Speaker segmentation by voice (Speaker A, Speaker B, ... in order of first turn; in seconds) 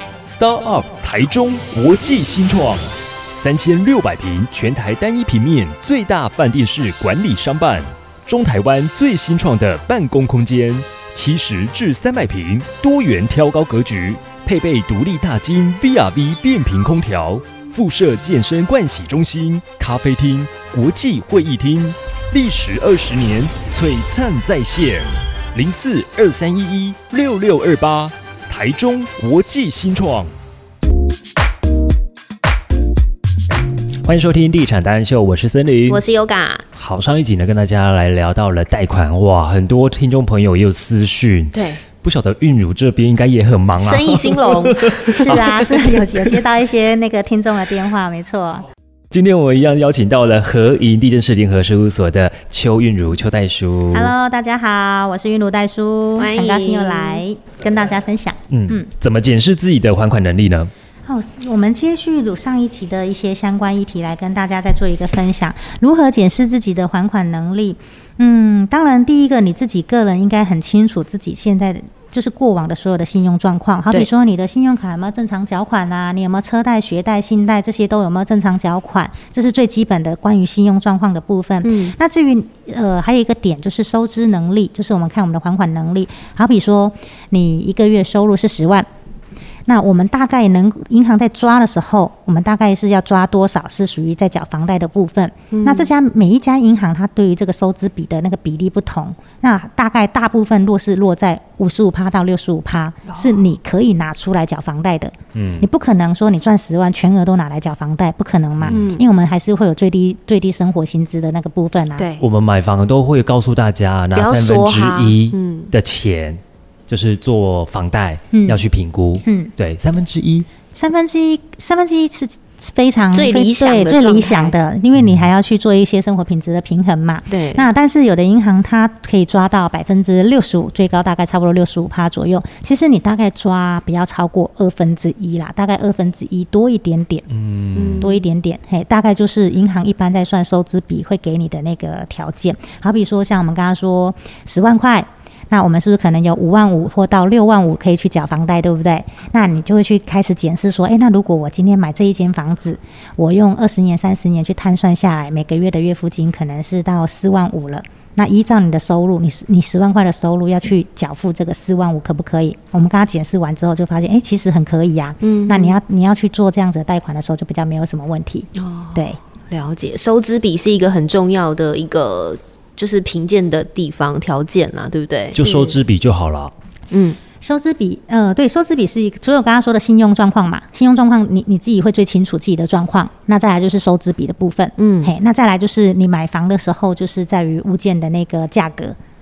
Speaker A: 0.3-30.3, 34.0-36.0, 36.7-46.1, 49.1-54.1, 58.5-60.7, 105.3-105.7, 112.2-120.5, 125.0-125.2, 137.3-138.1, 175.3-176.5
Speaker B: 35.9-36.6, 41.5-41.8, 43.8-45.6, 56.2-57.2, 81.6-81.9, 95.5-95.9, 103.1-103.4, 108.7-109.0, 112.0-112.2, 114.2-115.7, 123.1-124.5, 127.3-127.7, 137.7-138.2, 165.2-165.8, 168.6-175.8, 176.9-177.2, 184.8-185.1
Speaker C: 45.2-48.6, 53.9-58.9, 61.1-88.9, 89.7-112.0, 118.3-118.6, 119.2-119.5, 120.7-137.2, 138.0-169.2, 177.4-188.9